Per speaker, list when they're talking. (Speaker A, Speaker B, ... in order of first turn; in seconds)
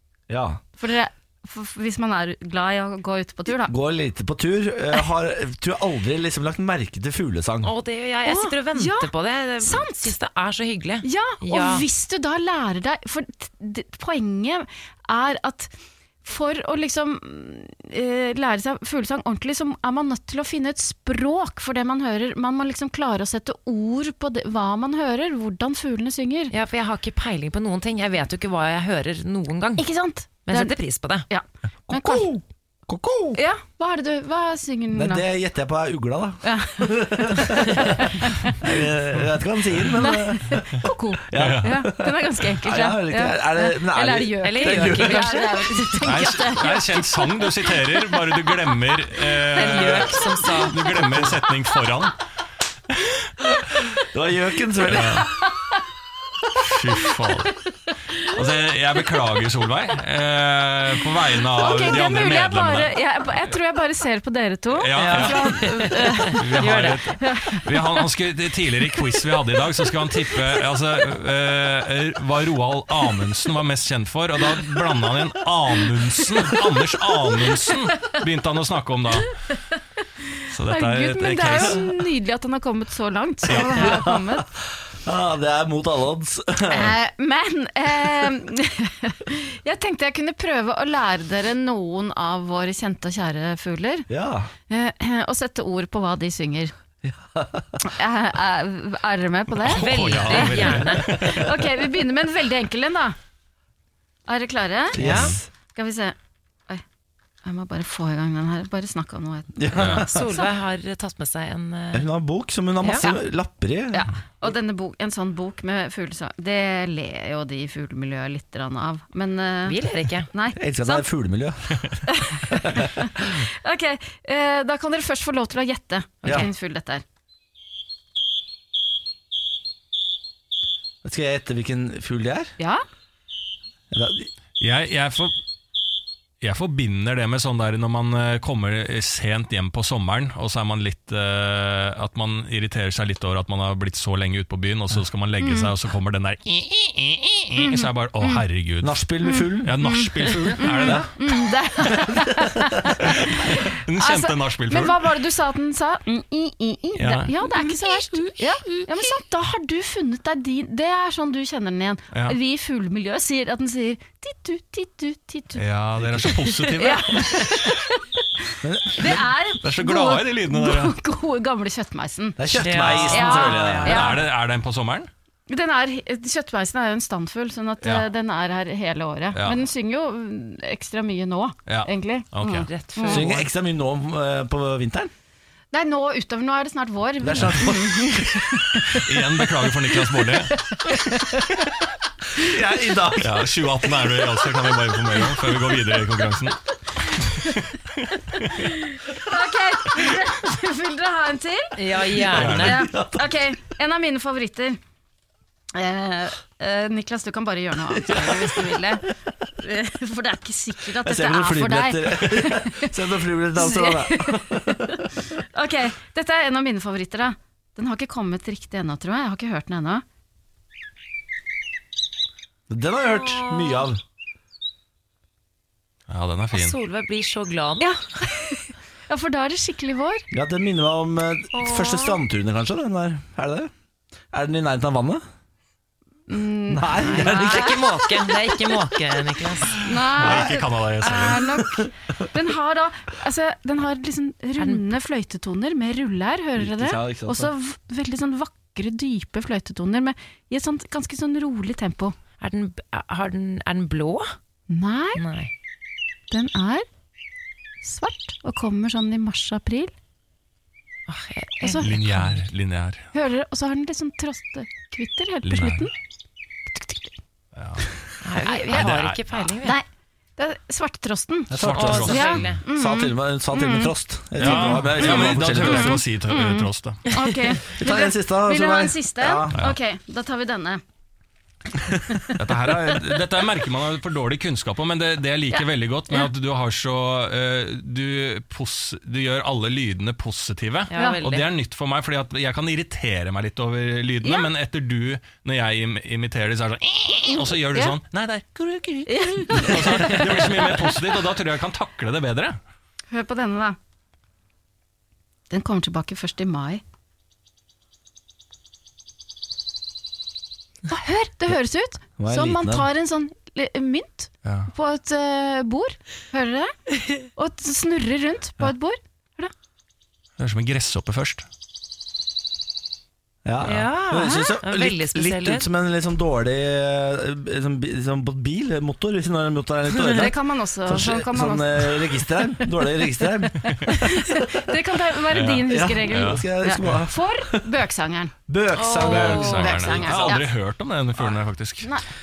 Speaker A: 0.3-0.6, 3.5-7.7, 31.9-33.4, 34.9-45.3, 54.0-55.3, 83.5-84.4, 85.0-87.0, 94.1-94.5, 97.0-97.8, 101.2-101.5, 105.0-105.4, 109.6-110.4, 111.9-114.1, 120.5-123.3, 131.0-132.5, 133.9-134.3, 148.8-149.8, 150.7-151.1, 166.0-166.3, 168.6-169.3, 172.4-174.1, 183.1-185.1, 187.2-188.9, 192.3-194.1, 202.6-203.3, 207.9-208.7, 211.0-215.1, 222.7-224.0, 230.3-233.7, 234.3-235.2, 236.7-237.8, 240.2-240.5, 246.6-247.5, 271.5-276.0, 277.7-279.6, 281.8-282.0, 312.2-312.9, 323.4-334.6, 335.7-337.7, 338.5-340.3
Speaker B: 0.8-3.7, 8.2-10.1, 11.0-15.7, 16.2-26.5, 29.8-30.7, 31.3-32.3, 33.3-35.2, 36.4-38.7, 39.9-48.4, 61.5-67.9, 80.7-84.5, 86.6-94.1, 94.7-96.7, 97.8-103.2, 104.2-105.0, 105.7-106.2, 107.4-110.1, 113.9-121.0, 122.1-127.0, 145.4-145.7, 147.6-148.4, 149.2-165.6, 166.2-174.2, 175.5-183.3, 185.7-189.0, 190.5-191.4, 198.6-204.8, 205.7-220.0, 227.8-230.2, 231.5-232.2, 236.3-237.8, 239.8-252.1, 254.7-255.2, 256.3-256.8, 257.8-259.9, 261.6-262.0, 263.1-265.9, 266.7-267.1, 268.4-268.9, 270.4-280.8, 282.9-283.2, 290.9-291.2, 294.2-294.5, 299.1-301.1, 303.1-303.8, 305.5-306.8, 310.9-319.5, 324.2-324.5, 330.1-332.2, 333.7-340.5
Speaker C: 7.6-11.8, 26.5-29.9, 30.4-31.3, 44.4-46.0, 49.5-50.9, 64.9-67.1, 99.7-101.1, 105.0-105.3, 109.7-112.1, 112.8-113.1, 119.7-120.3, 126.2-126.5, 172.5-174.1, 182.4-183.5, 201.7-202.8, 223.1-223.8, 226.5-227.9, 236.9-239.8, 244.6-244.8, 252.4-254.3, 255.2-255.5, 261.1-262.4, 268.2-269.8, 271.7-272.6, 290.9-291.4, 323.6-325.7, 338.8-339.3
Speaker D: 41.3-41.7, 46.0-52.1, 54.9-55.3, 56.6-57.6, 58.1-63.4, 64.7-79.4, 80.5-82.0, 83.5-84.0, 99.6-101.5, 109.7-110.0, 134.6-135.3, 136.4-149.0, 149.6-151.1, 153.0-155.1, 156.9-157.3, 162.1-162.4, 165.5-167.5, 169.6-170.9, 173.8-175.1, 179.3-179.6, 181.7-182.7, 187.3-187.7, 188.9-190.6, 193.2-196.6, 198.0-198.6, 202.3-202.9, 226.1-226.8, 240.0-241.6, 261.8-263.1, 265.4-265.9, 267.6-267.9, 268.7-269.5, 271.5-272.5, 274.4-277.1, 282.4-302.6, 314.4-314.7, 320.4-321.4, 335.3-337.0, 339.0-341.9